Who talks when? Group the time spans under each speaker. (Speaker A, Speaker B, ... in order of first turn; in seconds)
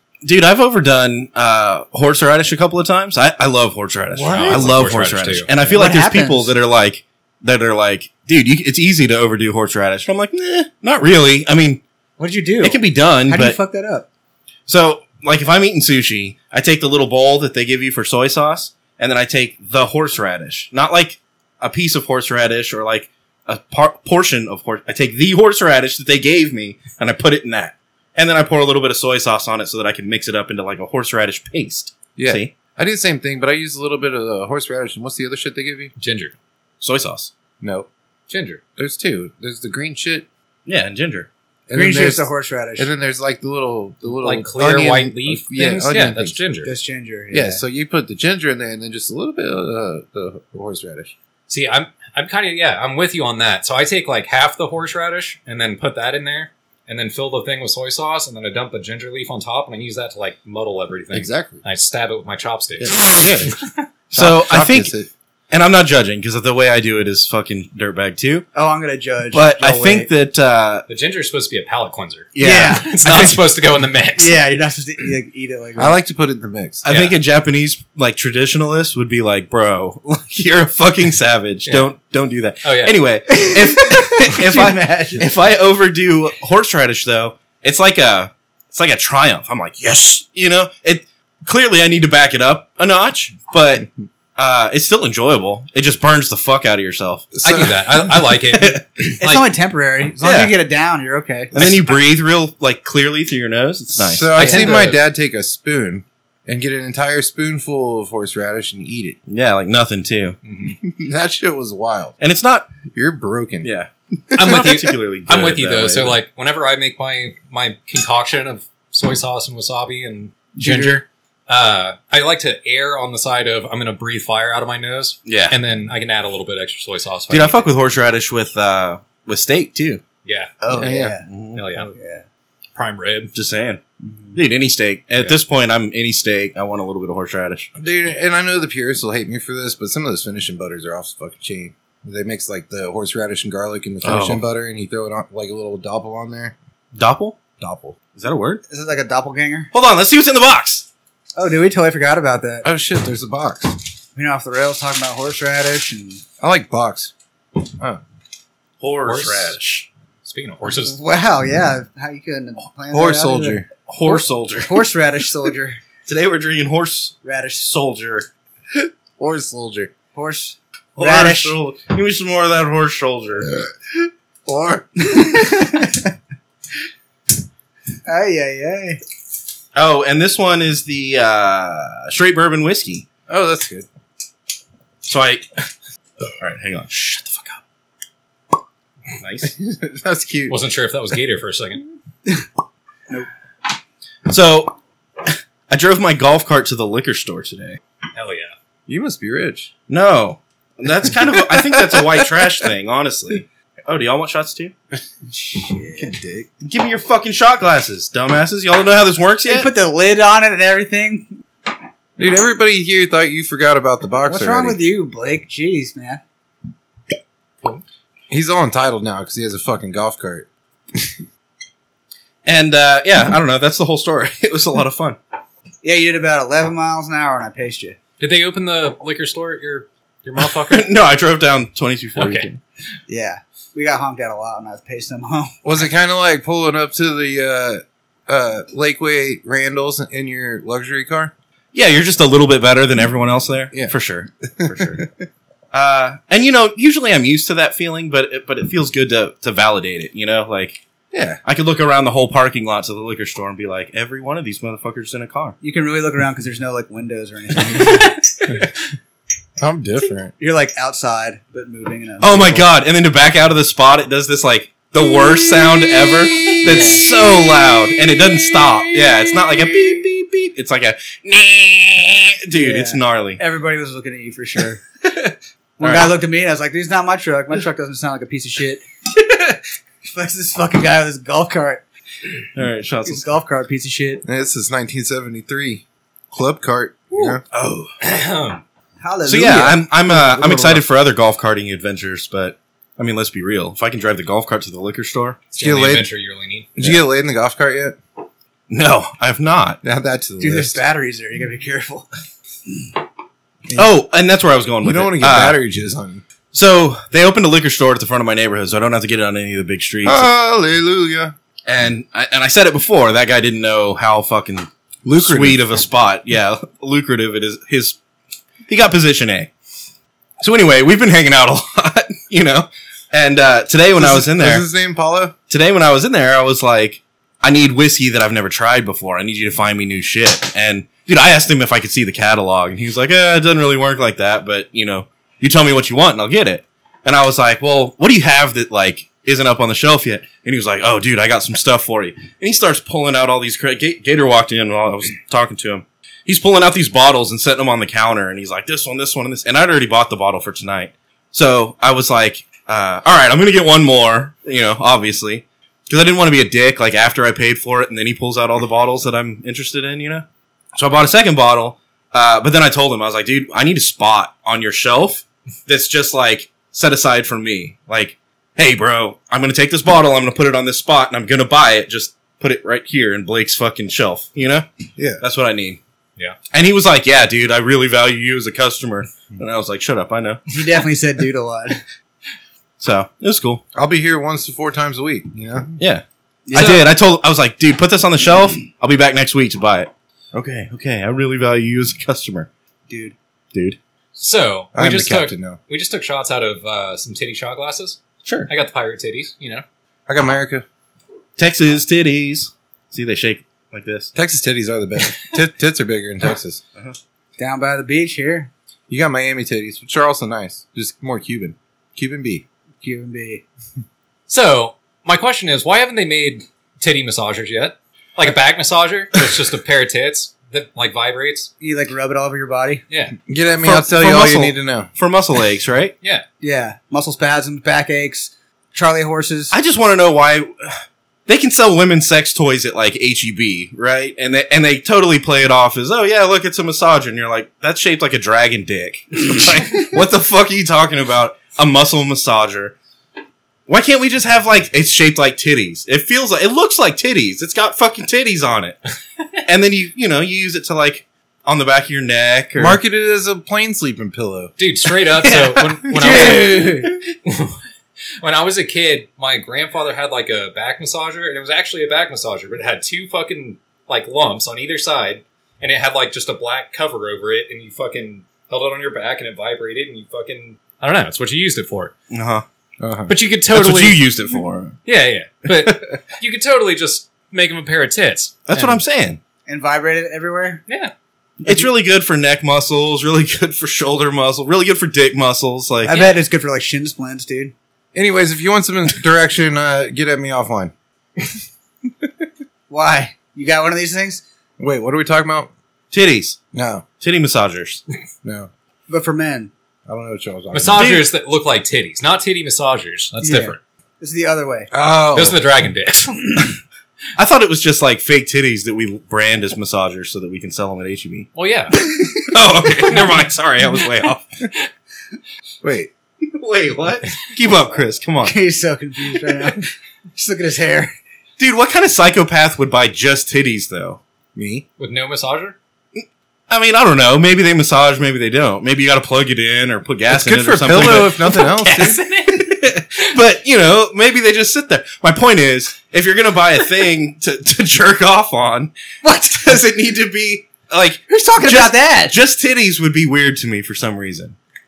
Speaker A: 0.2-11.8, 12.6-13.6, 14.7-32.5, 36.8-37.3, 40.6-41.3, 64.1-64.9, 65.5-68.5, 69.3-70.8, 72.3-73.4, 76.8-97.2, 100.2-100.5, 101.5-104.6, 109.3-110.4, 112.2-112.7, 113.6-116.2, 125.2-125.6, 127.3-130.0, 130.6-131.6, 133.3-133.8, 134.3-137.7, 144.0-144.4, 146.9-147.4, 148.1-148.6, 149.7-150.8, 158.8-159.9, 163.9-164.8, 166.1-168.3, 170.9-173.5, 179.7-183.1, 185.0-185.5, 186.3-187.6, 189.2-189.5, 194.3-197.8, 199.9-204.7, 206.6-209.7, 222.4-225.2, 230.7-232.6, 241.7-245.0, 245.7-250.8, 251.4-255.6, 262.2-273.4, 275.8-276.1, 282.5-283.2, 287.5-287.9, 289.2-295.4, 298.7-299.8, 303.7-305.6, 306.5-310.3, 311.7-318.0, 318.7-319.5, 320.4-324.6, 325.5-374.6, 375.2-375.8, 376.5-380.4, 382.8-383.6, 385.8-392.5, 393.5-393.8, 398.2-398.5, 401.4-404.1, 423.6-425.9, 429.5-442.7, 443.7-448.8, 449.4-452.8, 472.1-472.4, 473.5-474.8, 478.5-479.2, 481.4-486.0, 495.9-496.4, 497.0-497.8, 500.7-501.1, 507.2-511.3, 511.8-514.5, 516.2-518.3, 521.4-524.0, 525.9-531.5, 532.3-538.7, 539.3-544.4
Speaker B: 4.2-5.5, 36.0-36.3, 38.3-38.6, 44.2-46.7, 51.5-63.2, 70.9-74.4, 76.9-77.2, 82.6-83.0, 97.4-99.4, 104.3-105.0, 110.4-110.8, 114.3-127.7, 130.2-130.6, 131.5-131.9, 132.7-133.3, 159.0-159.6, 160.2-161.0, 190.5-191.8, 198.1-198.5, 228.2-230.9, 232.2-232.5, 288.0-288.6, 295.5-296.7, 386.6-386.8, 394.1-399.6, 414.3-421.5, 422.9-423.1, 454.6-457.6, 458.2-471.9, 473.1-474.1, 474.9-478.8, 480.7-480.9, 485.9-486.2, 500.5-503.6, 505.1-506.5, 511.3-511.8, 524.8-525.5, 530.8-532.5
Speaker C: 4.2-4.6, 5.7-6.5, 12.2-14.1, 41.7-42.9, 46.6-47.6, 68.5-70.1, 72.4-72.9, 74.2-76.0, 83.3-85.3, 99.2-101.5, 130.7-132.2, 134.0-134.4, 148.7-149.7, 151.3-152.7, 154.2-156.2, 160.9-165.8, 167.2-167.7, 170.1-171.6, 175.0-176.0, 178.1-179.0, 205.3-206.1, 209.4-211.3, 214.3-216.2, 225.8-228.0, 233.1-235.5, 255.6-258.1, 260.4-262.7, 266.7-267.0, 272.5-274.8, 275.8-278.8, 280.0-281.8, 283.0-284.2, 289.0-290.8, 300.4-302.1, 380.5-381.8, 386.4-386.8, 392.9-393.1, 407.4-408.5, 412.8-413.4, 421.6-422.8, 426.4-429.5, 456.2-456.5, 479.4-480.6, 485.8-487.5, 492.7-494.2, 498.9-499.5, 503.2-504.7, 518.2-520.9, 539.0-539.6, 541.1-542.1
Speaker D: 32.1-35.9, 37.6-37.9, 38.8-40.2, 41.7-42.2, 42.8-46.4, 47.3-51.1, 61.1-61.6, 62.8-65.1, 75.8-76.8, 97.3-98.0, 98.5-98.8, 104.0-109.2, 110.7-112.2, 112.9-113.7, 114.3-114.7, 120.6-121.0, 130.7-131.1, 137.8-146.5, 147.6-148.0, 152.6-153.8, 156.4-158.0, 162.9-163.7, 169.2-169.9, 173.5-175.2, 183.3-183.8, 189.4-190.6, 198.9-199.7, 201.4-202.3, 205.9-206.5, 212.2-214.8, 218.3-221.1, 235.6-241.3, 244.6-245.3, 251.1-251.4, 259.6-260.3, 284.2-287.4, 295.6-296.1, 296.8-298.0, 299.8-300.8, 304.8-306.2, 310.0-311.3, 315.0-315.6, 323.9-325.3, 375.0-375.2, 383.7-385.8, 394.7-395.6, 400.1-400.6, 404.1-406.6, 408.9-412.4, 423.3-424.9, 452.6-454.5, 455.2-456.9, 472.8-473.1, 487.9-490.7, 494.6-495.5, 496.5-496.8, 498.2-498.5, 499.9-501.0, 504.7-505.4, 515.6-515.9, 524.3-524.6, 530.1-532.0